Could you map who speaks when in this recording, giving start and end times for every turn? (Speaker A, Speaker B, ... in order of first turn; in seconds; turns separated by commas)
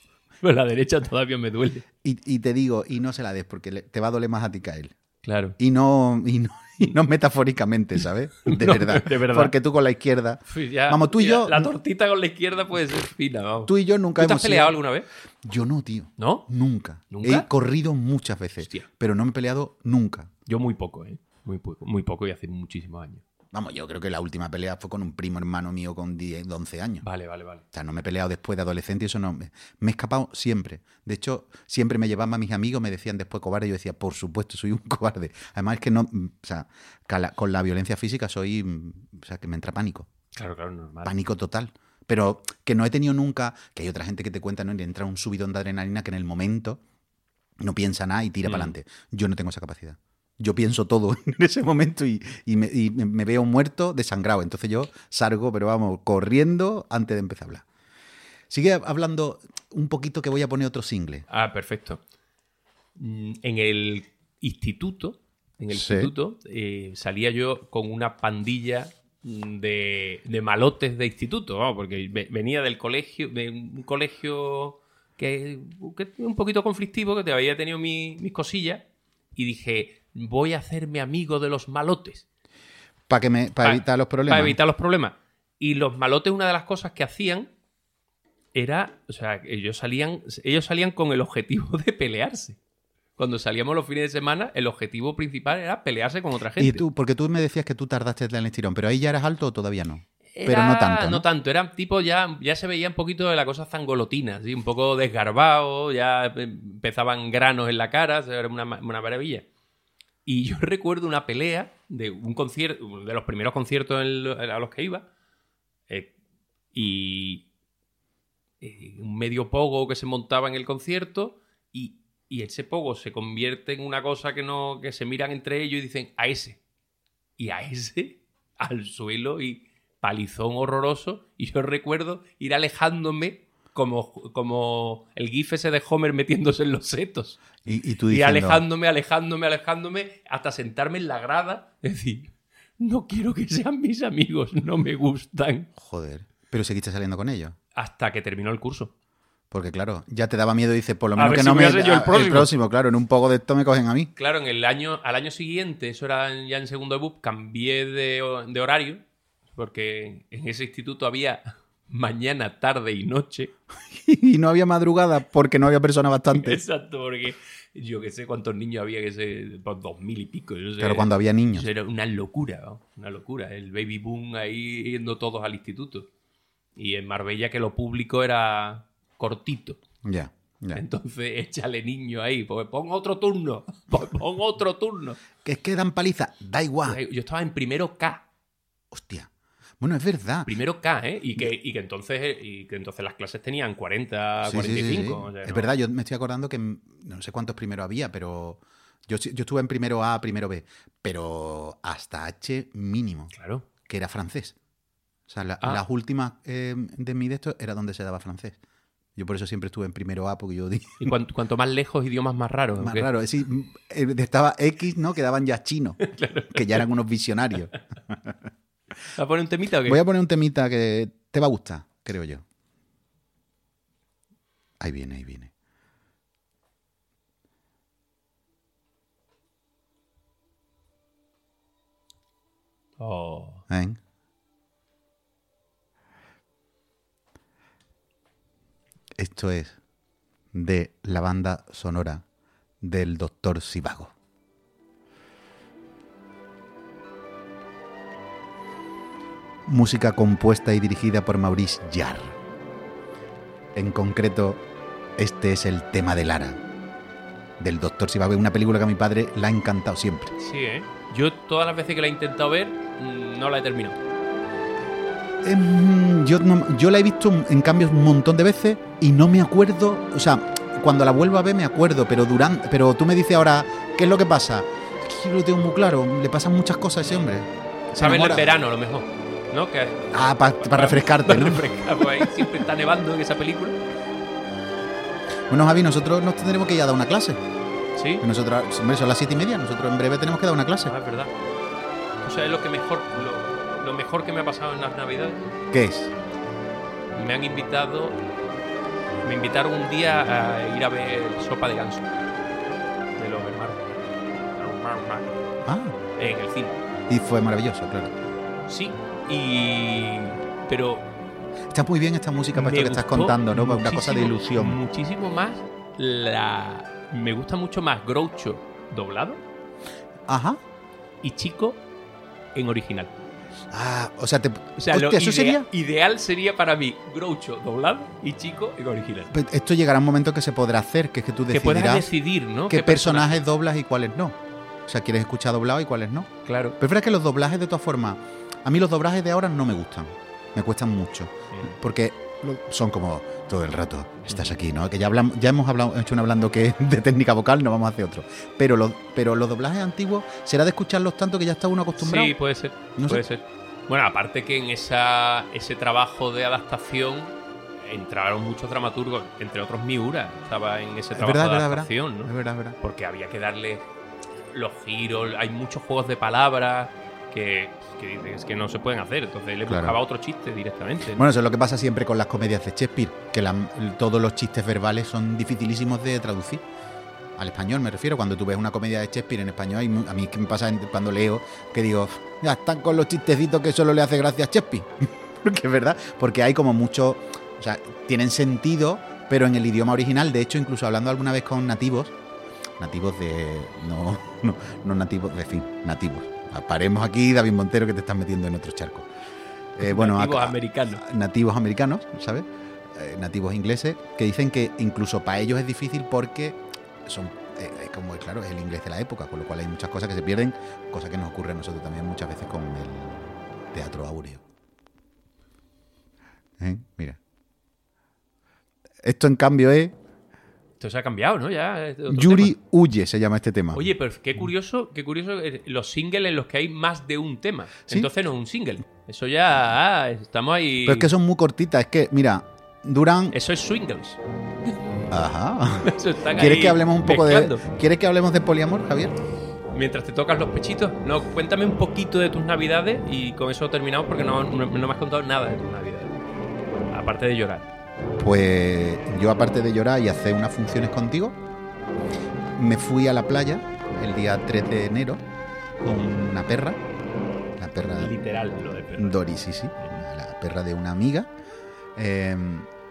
Speaker A: 0.4-1.8, Speaker B: 2.0-4.9, Speaker A: 5.2-5.6, Speaker B: 5.6-11.7, Speaker A: 8.4-9.5, Speaker A: 10.5-15.1, Speaker B: 13.7-14.8, Speaker B: 15.4-20.3, Speaker A: 16.2-16.5, Speaker A: 17.1-17.4, Speaker A: 18.6-18.9, Speaker A: 20.5-23.2, Speaker B: 23.5-27.0, Speaker A: 27.0-27.6, Speaker B: 27.7-40.1, Speaker A: 40.3-41.1, Speaker B: 41.0-46.8, Speaker B: 47.6-57.6, Speaker A: 48.4-48.7, Speaker B: 58.5-61.2, Speaker A: 61.3-62.0, Speaker A: 63.0-78.8, Speaker B: 65.7-66.1, Speaker A: 79.3-82.2, Speaker B: 83.1-84.6, Speaker A: 83.6-87.5, Speaker A: 88.5-92.6, Speaker A: 93.2-96.8, Speaker B: 96.6-101.2, Speaker A: 100.3-109.5, Speaker A: 110.2-115.0, Speaker A: 116.7-117.4, Speaker A: 118.6-126.6, Speaker A: 127.4-137.4, Speaker B: 137.6-138.6, Speaker A: 138.1-145.7, Speaker B: 145.8-147.6, Speaker A: 147.7-148.9, Speaker B: 149.5-154.1, Speaker A: 151.2-152.5, Speaker A: 154.2-159.0, Speaker A: 159.5-163.5, Speaker B: 163.9-166.6, Speaker A: 166.3-176.1, Speaker B: 170.8-171.7, Speaker A: 176.8-179.8, Speaker B: 180.0-180.8, Speaker A: 180.7-185.2, Speaker B: 185.4-187.0, Speaker A: 186.8-188.2, Speaker B: 188.9-190.5, Speaker A: 190.4-195.7, Speaker B: 194.4-203.3, Speaker A: 203.3-203.6, Speaker B: 203.8-204.6, Speaker B: 205.3-208.6, Speaker B: 209.2-211.1, Speaker A: 211.0-213.1, Speaker B: 212.8-218.3, Speaker A: 216.0-216.8, Speaker A: 219.1-220.0, Speaker B: 219.8-222.4, Speaker B: 224.8-225.5, Speaker A: 233.0-233.6, Speaker B: 233.7-234.0, Speaker B: 239.2-239.8, Speaker B: 240.5-242.2, Speaker B: 242.8-244.1, Speaker B: 249.7-252.3, Speaker B: 253.7-254.6, Speaker B: 255.2-256.6, Speaker B: 257.6-260.3, Speaker A: 260.4-264.0, Speaker B: 265.4-278.5, Speaker A: 278.0-283.8, Speaker B: 280.1-282.4, Speaker B: 285.5-287.4, Speaker A: 287.9-288.2, Speaker B: 288.2-290.9, Speaker A: 290.9-291.3, Speaker A: 292.2-295.4, Speaker B: 295.7-296.1, Speaker A: 297.1-298.2, Speaker A: 299.2-302.1, Speaker A: 303.1-305.4, Speaker B: 305.6-305.9, Speaker A: 306.1-306.8, Speaker B: 307.1-308.1, Speaker A: 308.7-311.1, Speaker B: 311.7-314.8, Speaker A: 312.5-319.4, Speaker B: 320.3-320.6, Speaker A: 321.2-321.8, Speaker A: 322.5-323.1, Speaker B: 323.7-325.7, Speaker A: 324.8-329.3, Speaker B: 329.3-332.1, Speaker A: 331.5-333.4, Speaker B: 332.7-352.3, Speaker A: 336.4-336.8, Speaker A: 352.0-363.9, Speaker B: 352.9-353.2, Speaker B: 361.1-362.8, Speaker A: 364.5-371.2, Speaker B: 369.7-370.0, Speaker B: 371.1-376.6, Speaker B: 377.4-392.1, Speaker B: 392.8-399.1, Speaker B: 399.8-414.4, Speaker A: 399.8-401.0, Speaker B: 416.6-417.2, Speaker B: 419.0-419.9, Speaker A: 420.8-422.5, Speaker B: 422.1-423.9, Speaker A: 423.7-431.1, Speaker B: 430.8-433.4, Speaker A: 433.3-434.7, Speaker B: 435.1-439.1, Speaker A: 435.8-437.6, Speaker A: 439.7-446.2, Speaker A: 446.9-447.7, Speaker B: 448.2-451.4, Speaker B: 452.6-455.2, Speaker B: 455.8-456.8, Speaker B: 457.6-458.1, Speaker A: 457.9-459.2, Speaker B: 459.0-461.3, Speaker B: 461.9-462.7